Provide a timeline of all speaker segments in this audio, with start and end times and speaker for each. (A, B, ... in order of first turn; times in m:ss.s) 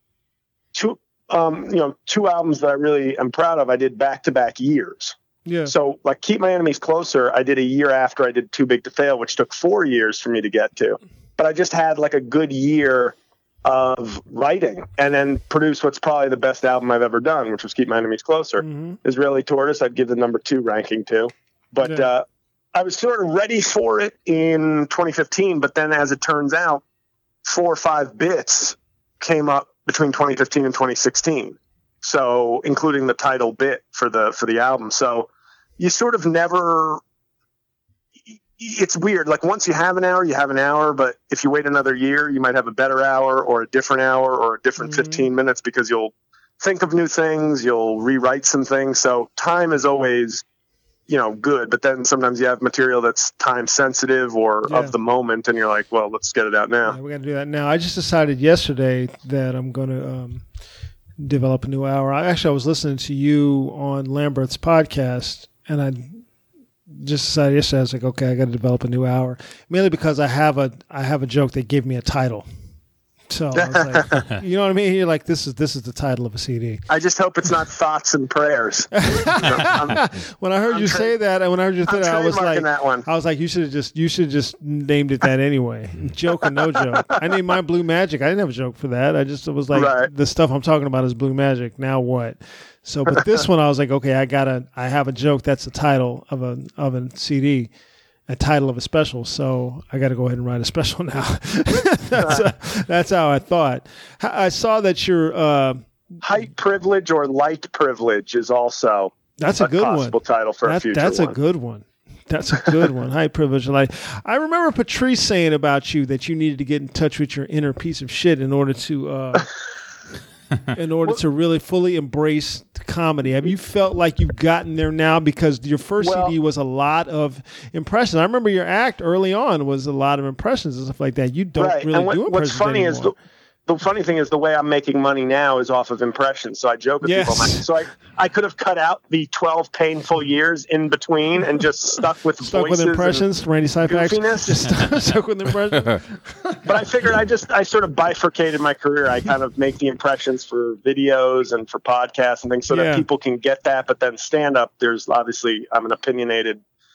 0:00.7-0:05.1 A
0:05.4-0:05.7 B
0:05.6-0:26.8 A
0:18.6-0:19.0 B
0:21.8-0:22.1 B
0:27.4-0:37.0 A
0:38.5-0:50.4 A
0:44.8-0:45.2 B
0:51.1-0:57.0 A
0:54.6-0:54.9 B
0:56.8-1:00.4 B
1:01.2-1:06.2 B
1:06.9-1:12.4 B
1:13.3-1:16.8 B
1:13.5-1:14.2 A
1:16.9-1:20.0 A
1:19.0-1:37.7 B
1:20.7-1:21.1 A
1:21.8-1:23.0 A
1:26.5-1:27.3 A
1:29.7-1:30.1 A
1:38.3-1:45.8 B
1:42.2-1:42.5 A
1:46.2-1:51.4 A
1:49.4-1:59.5 B
2:00.7-2:13.1 B
2:06.0-2:06.4 A
2:11.6-2:13.1 A
2:13.7-2:23.3 A
2:17.0-2:17.6 B
2:22.4-2:26.1 B
2:23.8-2:24.7 A
2:26.6-2:36.6 A
2:32.7-2:33.0 B